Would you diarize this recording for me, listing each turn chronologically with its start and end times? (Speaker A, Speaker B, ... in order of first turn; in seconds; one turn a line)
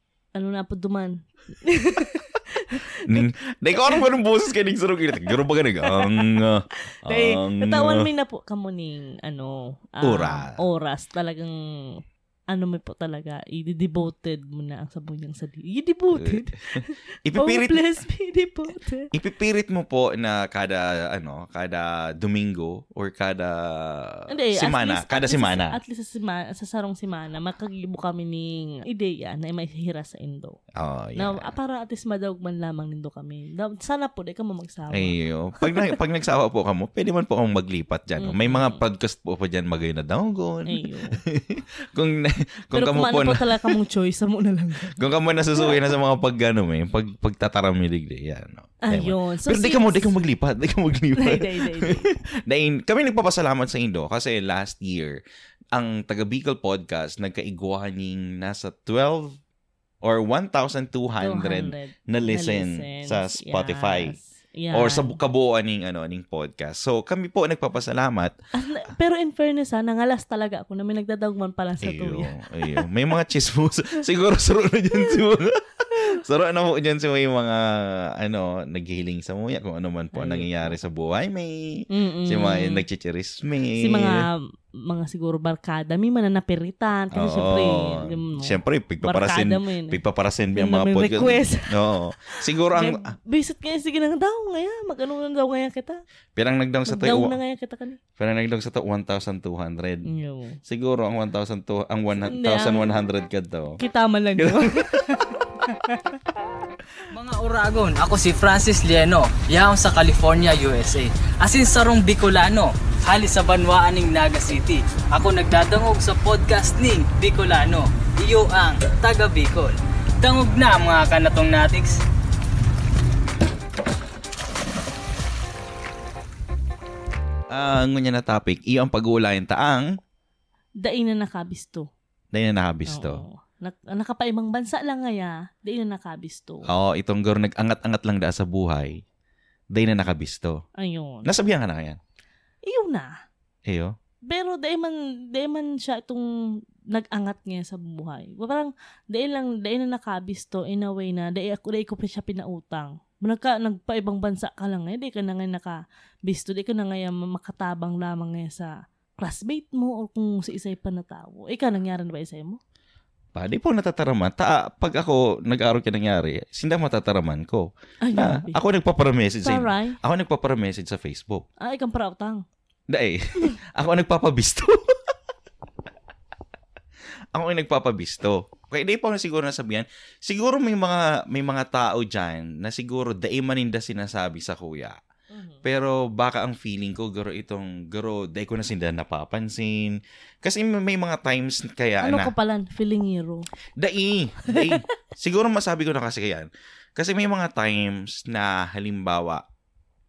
Speaker A: 0.3-4.0
Speaker B: 3.1-8.1
Speaker A: 5.8-19.1
Speaker B: 10.0-10.6
Speaker B: 16.1-18.0
Speaker B: 19.1-25.8
Speaker A: 24.3-30.6
Speaker B: 30.7-31.5
Speaker A: 31.1-36.0
Speaker B: 34.9-43.8
Speaker A: 38.2-38.8
Speaker A: 40.7-41.2
Speaker A: 42.7-44.9
Speaker B: 44.9-55.2
Speaker A: 45.5-45.8
Speaker A: 48.8-50.1
Speaker A: 51.2-52.1
Speaker B: 55.7-59.4
Speaker B: 60.0-64.2
Speaker A: 61.2-65.2
Speaker B: 64.7-68.3
Speaker A: 68.5-72.9
Speaker B: 71.8-84.3
Speaker A: 80.1-80.8
Speaker A: 81.9-82.8
Speaker A: 83.8-90.0
Speaker B: 87.1-93.1
Speaker A: 90.5-96.0
Speaker B: 96.3-97.4
Speaker A: 96.8-98.0
Speaker B: 98.2-100.1
Speaker A: 100.0-100.6
Speaker B: 100.6-103.8
Speaker A: 102.1-103.0
Speaker A: 103.8-106.2
Speaker B: 104.3-105.2
Speaker C: 107.1-122.0
Speaker B: 127.5-130.0
Speaker A: 130.8-131.9
Speaker B: 132.3-133.2
Speaker A: 132.9-136.7
Speaker B: 136.7-139.0
Speaker B: 139.7-140.6
Speaker A: 140.8-141.3
Speaker B: 141.2-142.0
Speaker A: 142.6-143.1
Speaker B: 143.7-143.9
Speaker A: 144.3-162.6
Speaker B: 163.3-171.4
Speaker A: 168.0-168.6
Speaker A: 169.4-170.0
Speaker A: 171.6-172.4
Speaker B: 172.9-175.1
Speaker B: 177.3-185.0
Speaker A: 185.3-185.6
Speaker B: 185.6-192.3
Speaker A: 192.0-193.5
Speaker B: 193.8-199.4
Speaker A: 194.5-194.8